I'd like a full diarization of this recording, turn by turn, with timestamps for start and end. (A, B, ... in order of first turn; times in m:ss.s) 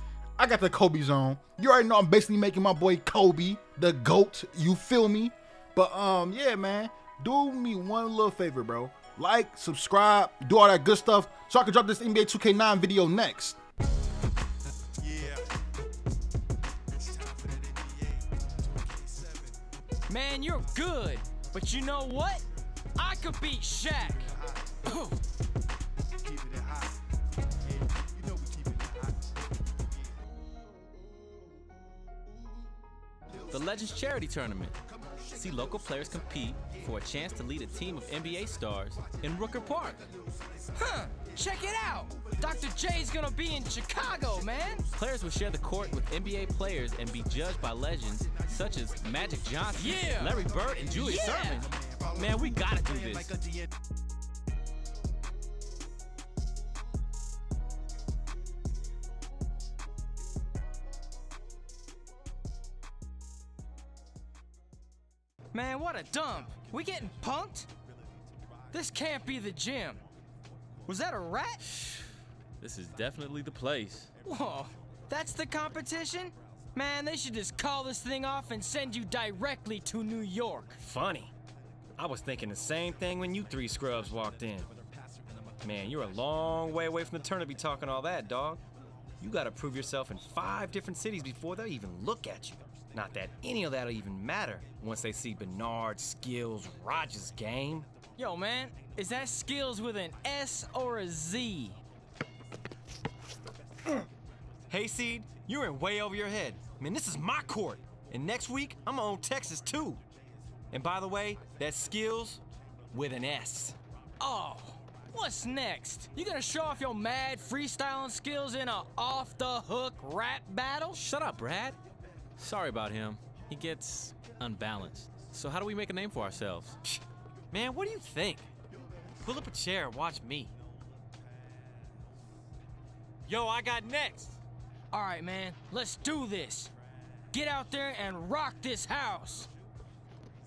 0:00.4-0:13.6 A
0:20.1-0:22.4 B
0:23.0-0:24.3 B
0:24.8-0:25.2 B
0:33.5-0:34.8 C
0:35.3-0:40.0 C
0:40.7-0:44.8 B
0:44.9-0:53.4 C
0:49.8-0:51.7 B
1:05.5-1:07.7 B
1:08.7-1:10.0 B
1:10.8-1:11.6 B
1:11.6-1:12.1 C
1:12.6-1:14.1 C
1:14.2-1:20.8 B
1:20.8-1:21.3 D
1:22.0-1:24.7 D
1:25.6-1:28.6 D
1:29.2-1:37.9 D
1:38.2-1:41.8 B
1:44.7-1:50.0 D
1:50.7-1:53.8 D
1:54.2-2:01.0 B
2:00.9-2:01.8 C
2:02.4-2:06.8 C
2:07.5-2:08.4 D
2:09.2-2:10.5 D
2:13.2-2:14.3 D
2:14.9-2:16.7 B
2:17.3-2:19.5 B